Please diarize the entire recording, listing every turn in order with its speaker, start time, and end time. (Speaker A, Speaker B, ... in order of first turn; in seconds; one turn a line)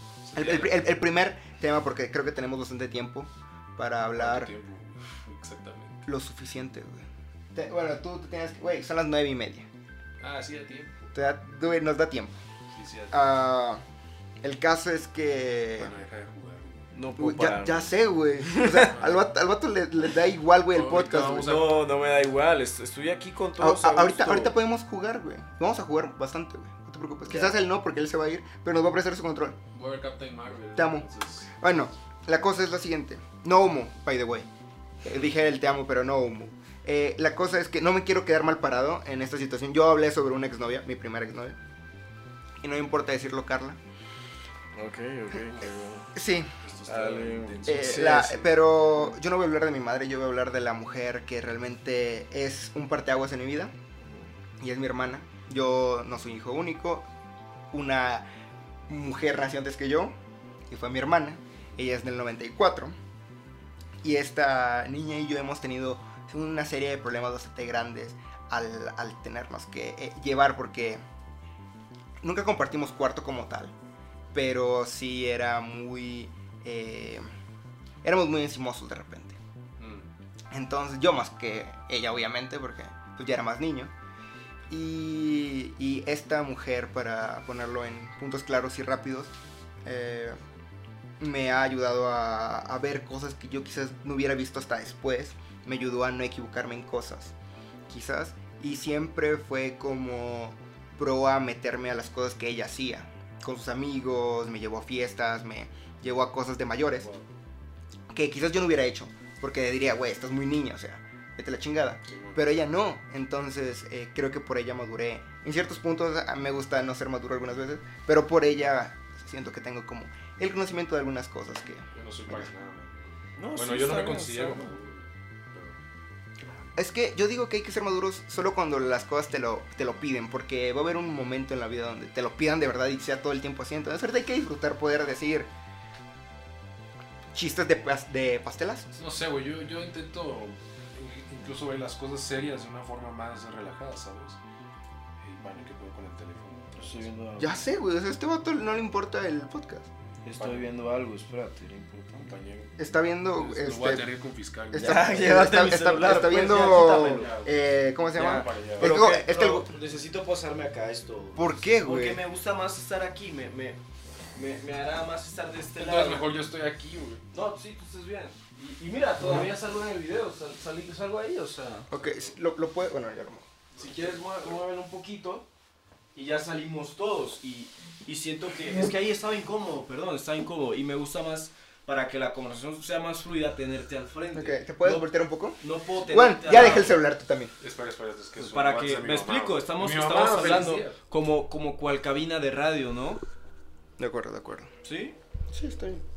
Speaker A: 0.2-0.9
Speaker B: 0.3-4.5
Speaker A: 4.2-6.0
Speaker B: 6.0-9.7
Speaker A: 10.2-11.1
Speaker B: 11.1-12.3
Speaker A: 12.7-13.3
Speaker B: 13.1-13.8
Speaker B: 14.4-15.9
Speaker A: 15.8-16.9
Speaker C: 16.9-17.9
Speaker B: 17.2-21.6
Speaker C: 18.5-18.9
Speaker A: 18.9-19.2
Speaker A: 20.7-21.9
Speaker C: 21.1-24.6
Speaker B: 23.6-29.6
Speaker C: 27.3-27.5
Speaker A: 29.7-31.7
Speaker B: 30.8-31.1
Speaker B: 31.6-34.5
Speaker B: 35.0-41.6
Speaker B: 42.6-43.8
Speaker C: 44.8-46.1
Speaker B: 46.1-46.5
Speaker A: 46.6-48.5
Speaker C: 46.9-48.5
Speaker B: 47.6-53.7
Speaker C: 54.0-54.3
Speaker B: 54.6-57.1
Speaker B: 57.7-58.2
Speaker B: 58.9-60.1
Speaker B: 60.7-62.9
Speaker B: 64.0-71.0
Speaker B: 72.2-73.7
Speaker B: 74.3-77.2
Speaker B: 78.0-79.4
Speaker A: 79.8-80.1
Speaker B: 80.5-83.9
Speaker B: 84.7-89.3
Speaker B: 89.8-90.4
Speaker B: 91.2-97.3
Speaker B: 97.9-107.1
Speaker A: 107.0-107.3
Speaker B: 108.1-122.5
Speaker A: 112.1-112.4
Speaker A: 121.9-125.8
Speaker C: 123.4-124.7
Speaker B: 126.8-135.5
Speaker B: 137.3-138.9
Speaker A: 139.0-144.4
Speaker A: 145.2-147.1
Speaker C: 146.8-147.6
Speaker B: 147.4-149.9
Speaker C: 150.2-152.6
Speaker A: 150.3-150.7
Speaker A: 152.2-152.7
Speaker B: 152.8-154.1
Speaker A: 153.3-155.0
Speaker B: 154.7-159.7
Speaker C: 154.8-157.3
Speaker A: 156.2-157.6
Speaker A: 158.1-159.0
Speaker C: 158.2-163.8
Speaker B: 161.4-162.2
Speaker C: 164.3-166.3
Speaker A: 165.8-167.2
Speaker C: 167.3-171.9
Speaker B: 171.9-173.5
Speaker A: 173.7-174.6
Speaker C: 173.8-175.5
Speaker C: 176.1-187.0
Speaker B: 184.3-187.5
Speaker A: 187.6-191.0
Speaker C: 188.4-193.2
Speaker B: 194.0-194.7
Speaker C: 194.8-195.2
Speaker B: 195.5-196.0